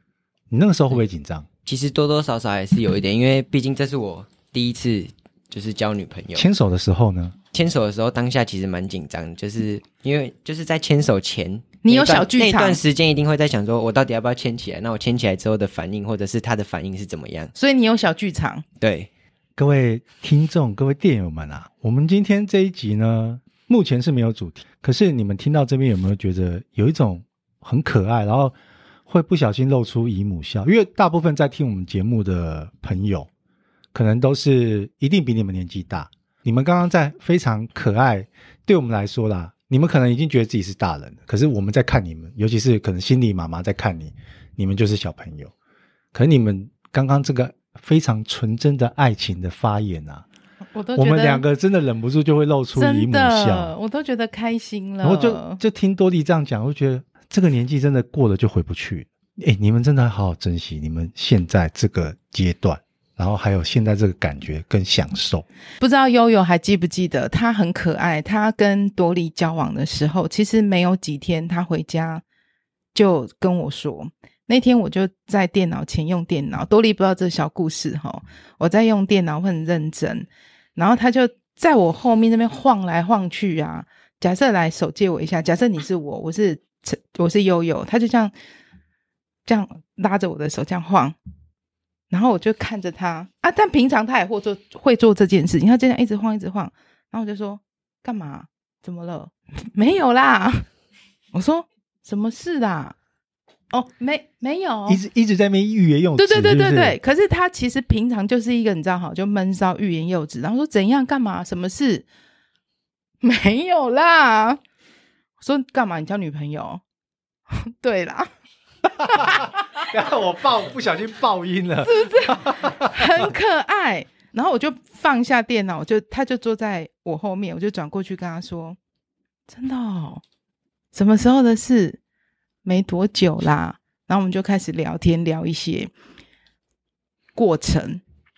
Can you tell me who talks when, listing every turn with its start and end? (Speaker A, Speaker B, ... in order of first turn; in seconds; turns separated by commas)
Speaker A: 0.5-1.5, Speaker B: 1.6-6.5, Speaker A: 6.3-7.3, Speaker B: 7.5-17.5, Speaker C: 11.8-12.8, Speaker C: 17.5-18.6, Speaker B: 18.8-19.1, Speaker A: 19.6-28.5, Speaker A: 29.1-33.3, Speaker A: 33.9-45.5, Speaker A: 46.1-50.2, Speaker C: 50.7-51.4, Speaker A: 51.0-53.7, Speaker C: 52.7-55.6, Speaker A: 55.0-65.5, Speaker C: 65.8-72.2, Speaker C: 72.9-88.3, Speaker C: 89.5-91.1, Speaker C: 92.1-100.6, Speaker C: 101.3-102.9, Speaker C: 103.7-105.0, Speaker A: 104.9-107.0, Speaker C: 106.2-112.0, Speaker C: 113.2-114.6, Speaker C: 115.4-116.8, Speaker C: 117.5-118.3, Speaker A: 119.0-123.0, Speaker C: 121.8-128.8, Speaker C: 129.5-130.2, Speaker C: 130.9-132.0, Speaker C: 132.6-135.9, Speaker C: 137.3-138.0